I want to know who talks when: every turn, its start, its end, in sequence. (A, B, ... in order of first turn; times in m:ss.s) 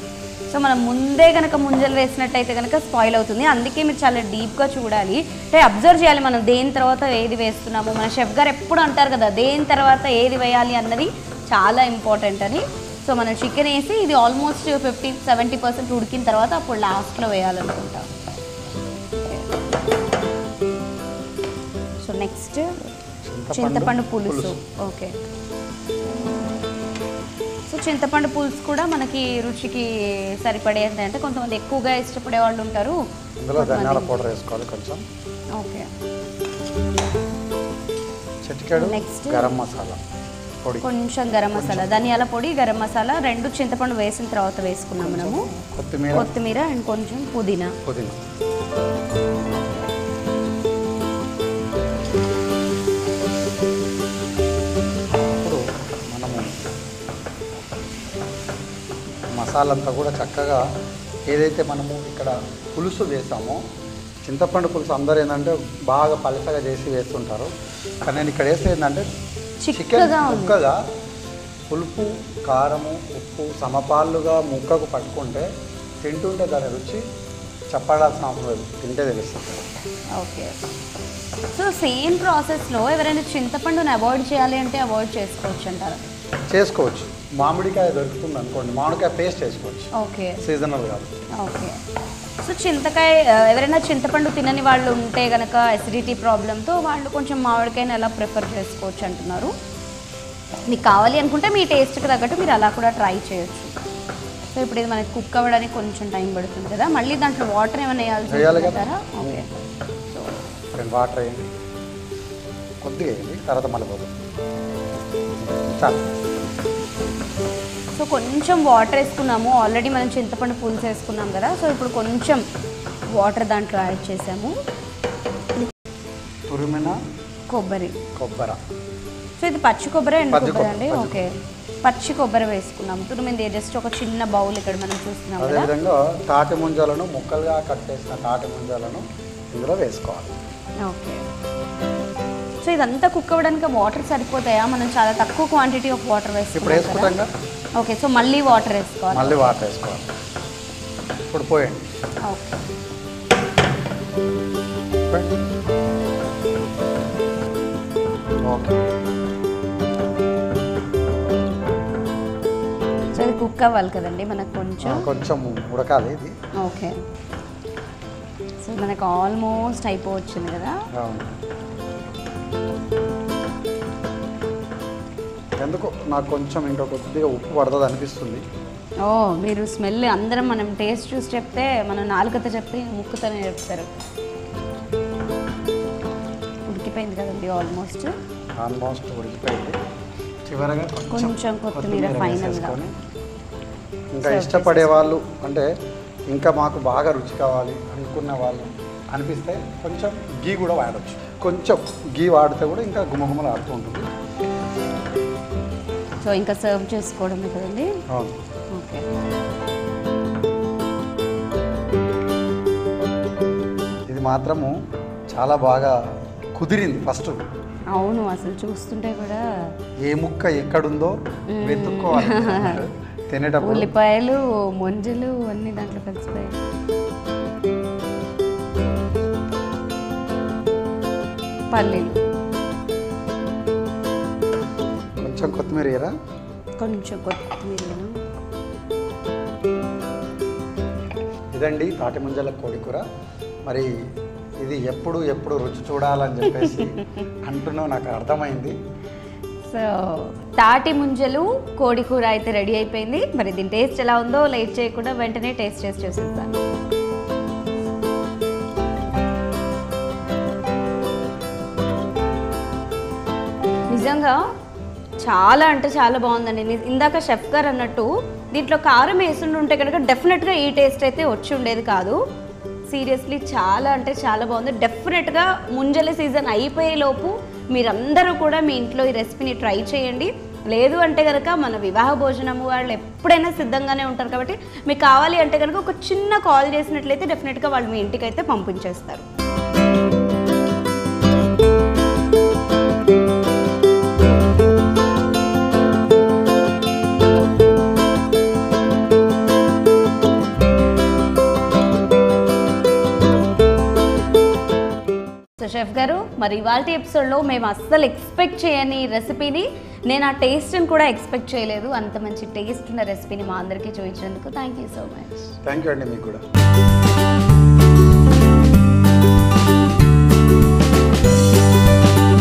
0:00.5-0:18.1 A
0:19.2-0:19.5 A
0:22.0-0:22.9 A
0:23.2-0:24.6 B
0:23.5-0:25.2 A
0:27.7-0:33.0 A
0:33.4-0:35.0 B
0:33.6-0:34.2 A
0:35.6-0:35.9 A
0:38.4-0:40.0 B
0:38.8-0:39.6 A
0:40.6-0:40.9 B
0:40.8-0:45.5 A
0:41.5-0:42.2 B
0:45.0-0:46.3 B
0:46.1-0:47.8 A
0:47.8-0:48.2 B
0:55.4-0:56.7 B
0:59.3-1:00.6 B
1:01.3-1:03.6 B
1:04.2-1:07.5 B
1:08.0-1:09.1 B
1:09.6-1:10.6 A
1:09.7-1:10.8 B
1:11.7-1:15.5 B
1:16.0-1:17.0 B
1:17.7-1:19.6 B
1:20.2-1:20.6 A
1:21.5-1:26.0 A
1:26.5-1:29.9 B
1:29.9-1:30.4 A
1:30.4-1:31.1 B
1:31.4-1:31.8 A
1:32.4-1:39.5 A
1:40.7-1:43.7 A
1:44.5-1:49.5 A
1:48.3-1:49.4 B
1:50.8-1:51.5 B
1:52.8-1:54.1 B
1:55.5-1:56.1 B
1:57.9-2:02.4 A
2:03.1-2:04.6 A
2:06.5-2:07.0 B
2:07.5-2:08.0 A
2:08.2-2:08.6 B
2:09.4-2:15.7 A
2:10.3-2:11.2 B
2:15.4-2:20.4 B
2:20.8-2:21.2 A
2:22.6-2:27.2 A
2:26.6-2:27.3 B
2:27.8-2:29.6 A
2:29.1-2:30.1 B
2:31.3-2:31.8 B
2:32.3-2:32.6 A
2:35.1-2:35.4 B
2:38.5-2:38.8 B
2:43.1-2:45.1 A
2:44.8-2:46.3 B
2:46.6-2:47.0 A
2:48.6-2:50.8 A
2:51.0-2:51.3 B
2:55.6-2:58.4 B
2:59.0-3:03.9 A
3:06.7-3:08.1 A
3:08.6-3:09.8 B
3:10.5-3:12.9 B
3:11.1-3:12.8 A
3:14.1-3:15.7 B
3:14.2-3:15.1 A
3:16.3-3:24.1 B
3:26.2-3:27.9 A
3:28.1-3:28.4 B
3:28.7-3:29.1 A
3:34.1-3:34.8 B
3:35.3-3:36.0 B
3:36.6-3:37.4 B
3:37.9-3:39.4 A
3:40.0-3:43.9 B
3:41.5-3:42.8 A
3:43.6-3:46.6 A
3:51.7-3:52.2 A
3:55.2-3:56.1 B
3:56.8-3:58.2 A
4:01.5-4:03.0 B
4:03.6-4:03.9 B
4:04.6-4:08.8 B
4:06.5-4:06.9 A
4:09.7-4:16.6 A
4:23.9-4:24.4 A
4:25.2-4:32.2 A
4:32.9-4:49.3 A
5:05.6-5:15.5 A
5:15.6-5:16.4 B